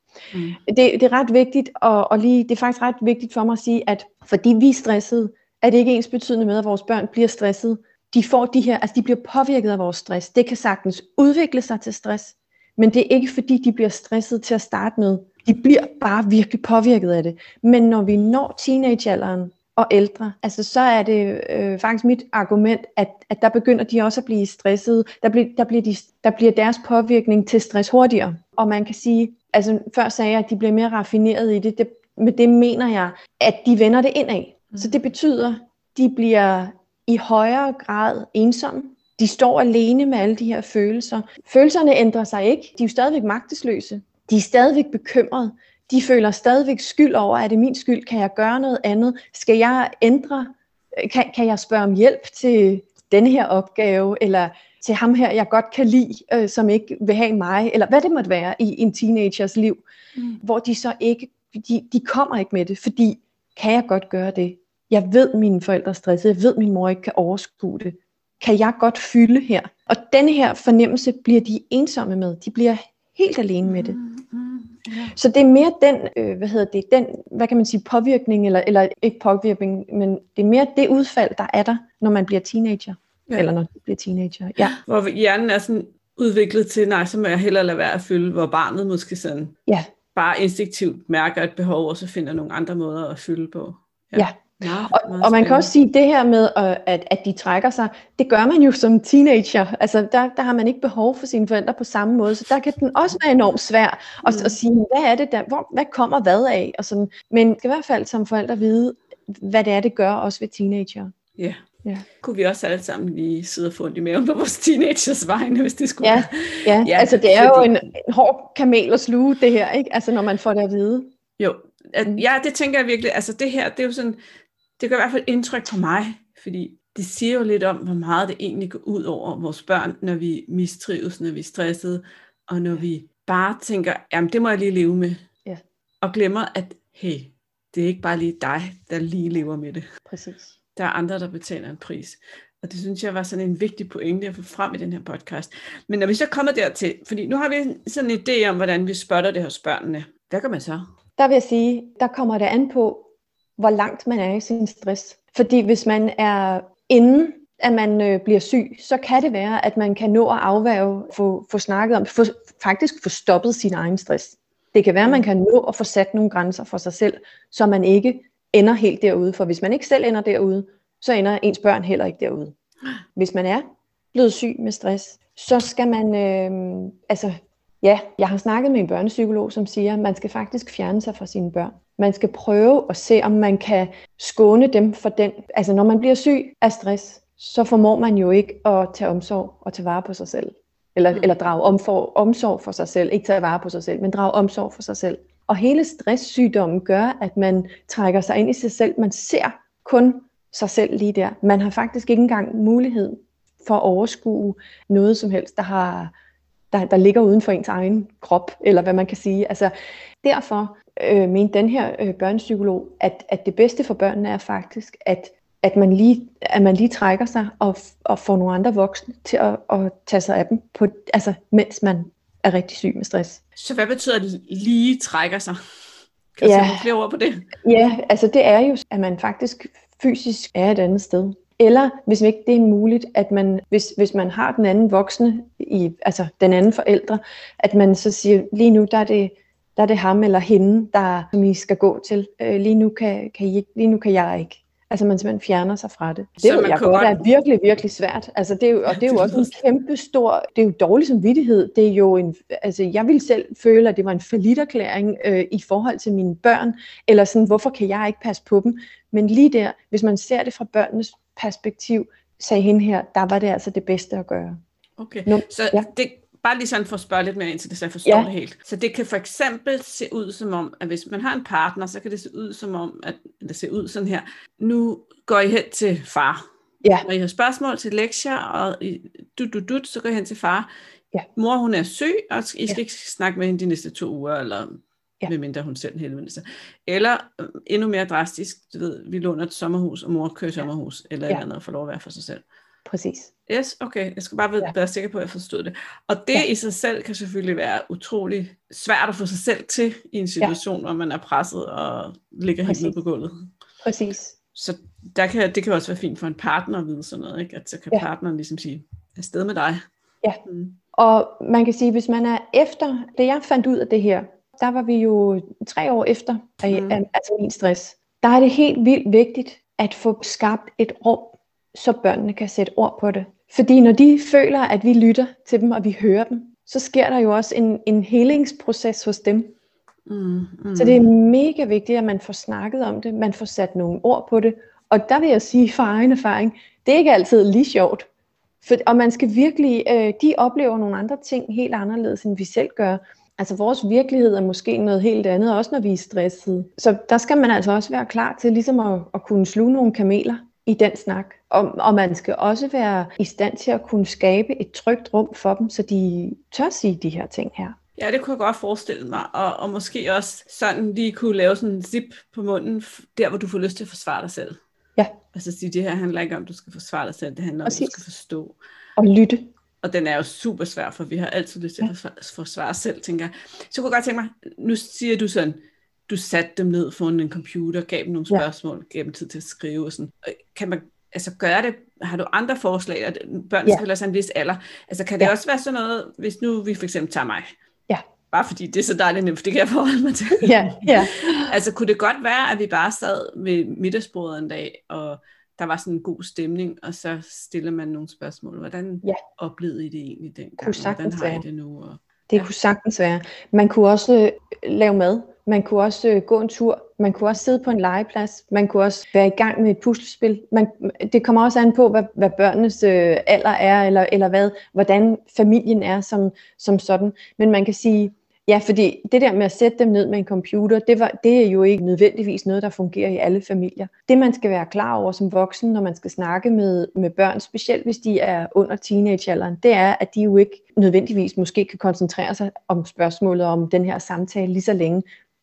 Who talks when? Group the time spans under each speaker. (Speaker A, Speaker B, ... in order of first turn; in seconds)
Speaker A: 0.3-0.6, 73.7-75.2, 84.6-89.6, 90.1-95.7, 104.3-104.6, 111.4-111.7, 112.2-117.8, 121.4-124.2, 124.8-135.2, 136.0-139.8, 140.8-150.8, 223.6-225.6, 226.4-227.5, 246.4-247.2, 248.9-249.6, 265.0-276.4, 277.0-280.7, 281.4-292.4, 293.5-303.5, 304.6-309.9, 310.4-310.8, 316.7-317.0, 330.1-331.1, 358.0-364.6, 365.3-368.6, 369.8-387.5, 388.3-402.5
Speaker B: 0.7-59.8, 60.4-74.0, 75.2-84.7, 94.2-111.1, 116.0-121.1, 140.1-140.6, 151.2-153.1, 153.6-172.5, 173.2-206.1, 206.7-209.7, 210.2-223.4, 226.4-226.9, 227.6-264.6, 265.3-265.9, 292.9-293.3, 302.7-302.9, 303.8-304.4, 310.9-329.5, 330.8-338.1, 338.6-357.8, 367.6-368.0, 369.0-369.5, 390.4-391.5, 400.6-401.4, 402.3-435.1